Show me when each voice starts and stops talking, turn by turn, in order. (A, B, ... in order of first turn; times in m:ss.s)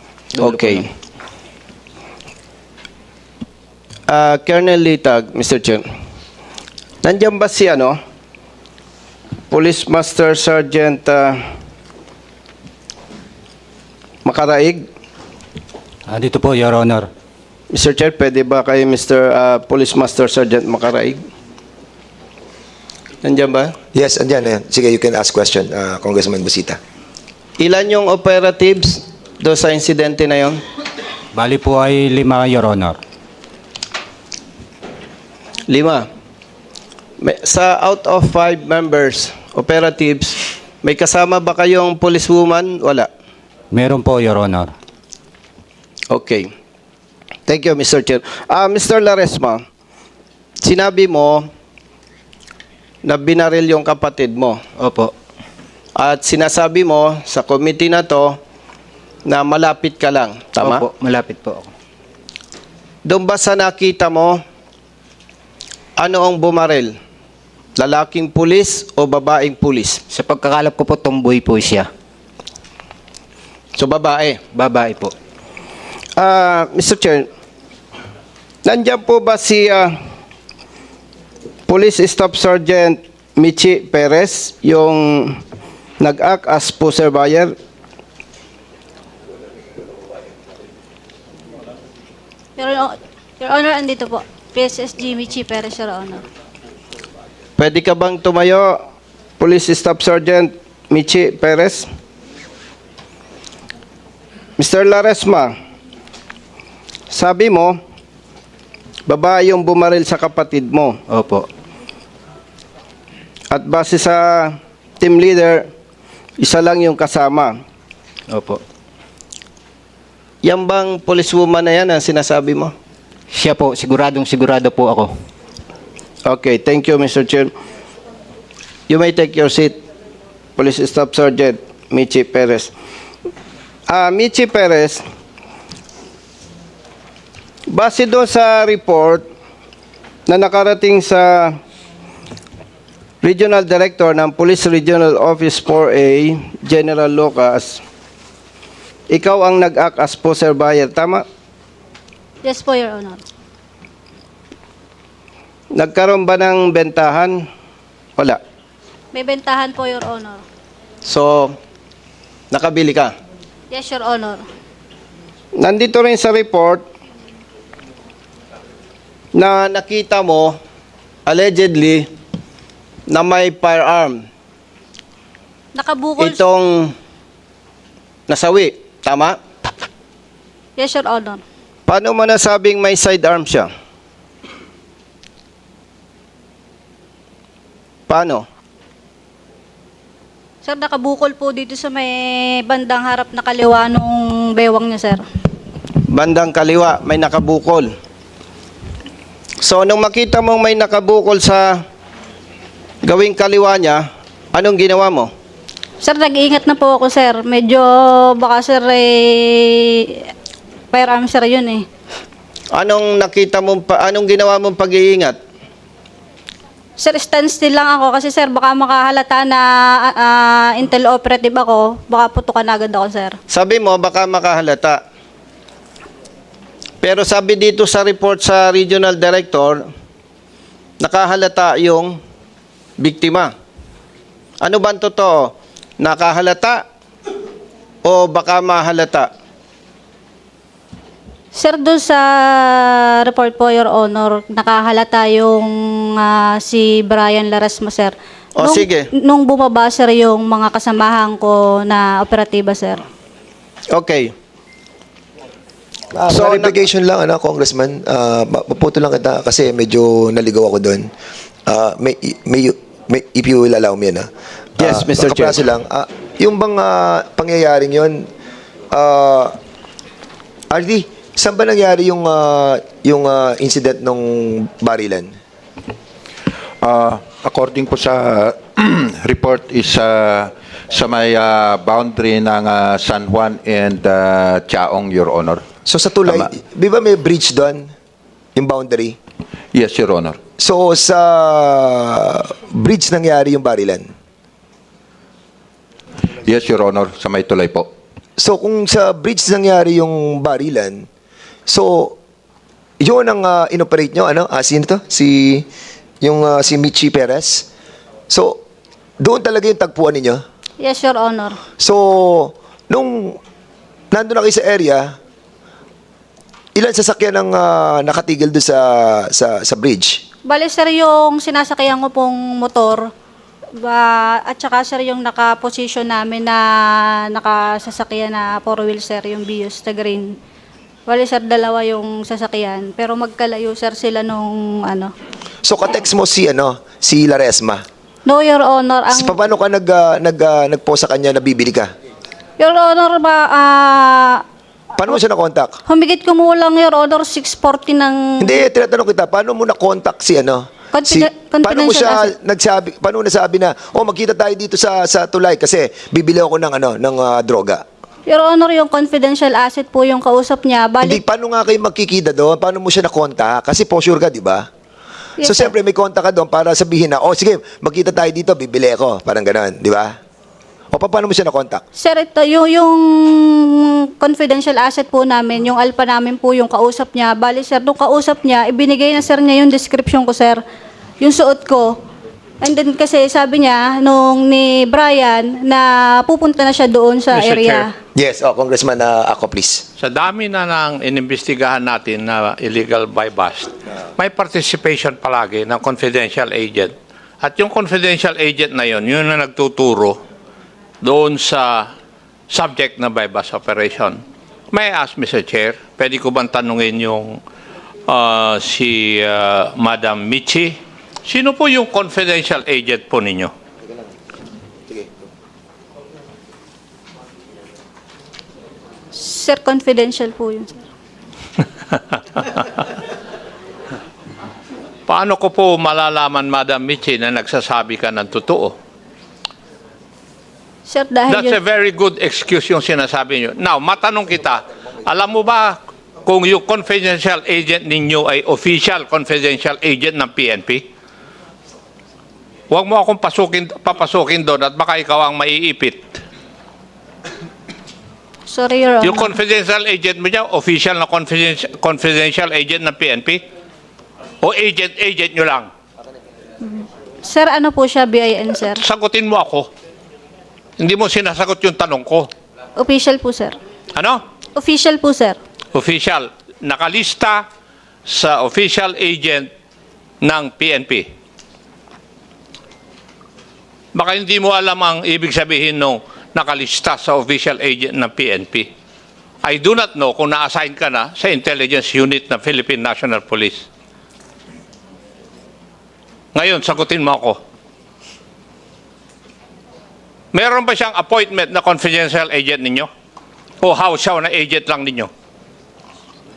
0:00.4-0:00.9 A
0:00.4-0:00.9 B
0:04.1-0:05.8 B
0:07.0-0:08.0 B
0:09.5-0:11.4 B
0:14.2-0:14.9 B
0:16.1-0:17.1 C
0:17.7-0:21.2 B
0:23.2-0:23.7 B
0:23.9-0:26.8 D
0:27.6-0:30.6 B
0:31.3-0:33.0 C
0:35.7-0:36.1 B
0:37.2-0:43.1 B
0:43.7-0:44.7 C
0:46.1-0:46.5 B
0:47.5-0:49.6 B
0:50.6-0:51.5 B
0:53.0-0:54.6 B
0:54.8-0:55.1 A
0:56.0-0:58.4 B
0:59.3-1:00.8 B
1:00.6-1:01.7 A
1:03.0-1:04.4 B
1:06.0-1:07.0 B
1:07.8-1:10.0 B
1:10.1-1:11.9 A
1:13.8-1:14.4 B
1:14.5-1:15.1 A
1:16.2-1:17.3 B
1:18.6-1:20.0 B
1:21.7-1:25.4 B
1:26.0-1:27.6 B
1:32.6-1:36.2 E
1:37.6-1:38.8 B
1:39.4-1:41.9 B
1:44.6-1:45.6 B
1:47.1-1:47.8 B
1:49.1-1:51.0 B
1:51.1-1:51.5 A
1:53.5-1:55.7 B
1:56.4-1:57.6 B
1:58.3-1:58.6 A
2:00.4-2:02.7 B
2:03.3-2:05.1 A
2:06.3-2:07.5 B
2:08.9-2:09.8 B
2:10.6-2:12.7 B
2:13.9-2:15.0 B
2:17.7-2:19.2 B
2:20.3-2:21.6 B
2:23.2-2:27.8 B
2:29.1-2:31.2 B
2:32.4-2:33.2 E
2:35.7-2:37.5 B
2:39.1-2:40.4 E
2:41.0-2:41.6 B
2:42.5-2:43.1 B
2:43.7-2:44.4 E
2:45.6-2:46.8 B
2:49.3-2:50.6 B
2:51.3-2:52.1 B
2:53.1-2:54.2 B
2:55.8-2:56.4 E
2:56.2-2:56.9 B
2:58.3-2:59.4 B
3:00.8-3:01.4 E
3:01.9-3:03.7 B
3:08.1-3:08.5 B
3:10.6-3:15.2 E
3:16.1-3:17.9 B
3:19.6-3:21.8 B
3:23.0-3:25.3 B
3:26.0-3:30.3 E
3:30.9-3:31.9 E
3:32.7-3:35.4 B
3:37.0-3:43.4 E
3:43.5-3:45.0 B
3:47.0-3:49.9 B
3:51.0-3:52.2 B
3:53.0-3:53.5 B
3:54.6-3:56.8 B
3:58.0-3:59.3 B
4:01.5-4:13.0 E
4:08.6-4:09.1 B
4:13.9-4:14.3 B
4:16.1-4:21.1 D
4:16.3-4:16.8 B
4:21.7-4:28.3 D
4:24.8-4:25.6 B
4:28.9-4:29.6 D
4:30.7-4:35.3 D
4:36.8-4:45.6 F
4:45.9-4:47.9 D
4:48.6-4:49.2 D
4:49.7-4:50.4 F
4:50.6-4:54.1 D
4:56.4-4:57.9 F
4:58.4-5:01.1 D
5:01.7-5:02.2 D
5:03.0-5:05.7 D
5:06.2-5:07.7 D
5:08.3-5:08.6 D
5:09.2-5:10.4 D
5:10.8-5:11.6 E
5:11.8-5:13.4 D
5:14.1-5:15.2 D
5:16.8-5:20.2 D
5:20.5-5:23.1 E
5:23.8-5:30.4 E
5:31.1-5:35.1 E
5:35.6-5:37.8 D
5:38.3-5:39.4 E
5:39.1-5:41.9 D
5:42.6-5:44.4 E
5:45.0-5:45.8 D
5:45.9-5:48.6 E
5:48.4-5:57.8 D
5:50.9-5:52.3 E
5:58.3-6:01.2 E
6:01.0-6:04.7 D
6:05.4-6:05.7 E
6:05.4-6:10.2 D
6:10.9-6:11.8 D
6:12.0-6:20.6 E
6:21.2-6:22.0 E
6:22.6-6:27.9 E
6:27.3-6:27.9 G
6:28.2-6:29.9 D
6:30.0-6:40.2 G
6:41.0-6:41.9 G
6:42.5-6:44.2 G
6:44.7-6:47.4 G
6:48.1-6:53.5 G
6:59.1-7:00.8 E
7:05.1-7:08.8 G
7:10.9-7:11.6 E
7:11.3-7:20.8 G
7:22.7-7:26.2 G
7:28.5-7:29.4 E
7:29.0-7:33.4 G
7:34.4-7:35.7 G
7:36.6-7:38.8 E
7:38.8-7:39.7 G
7:40.8-7:42.3 G
7:42.8-7:43.6 E
7:44.0-7:44.2 G
7:44.6-7:45.4 E
7:45.7-7:47.5 G
7:48.1-7:49.5 G
7:50.2-7:51.1 G
7:53.9-7:58.7 G
7:59.4-8:03.7 G
8:06.4-8:07.4 G
8:10.3-8:12.9 G
8:13.6-8:15.1 G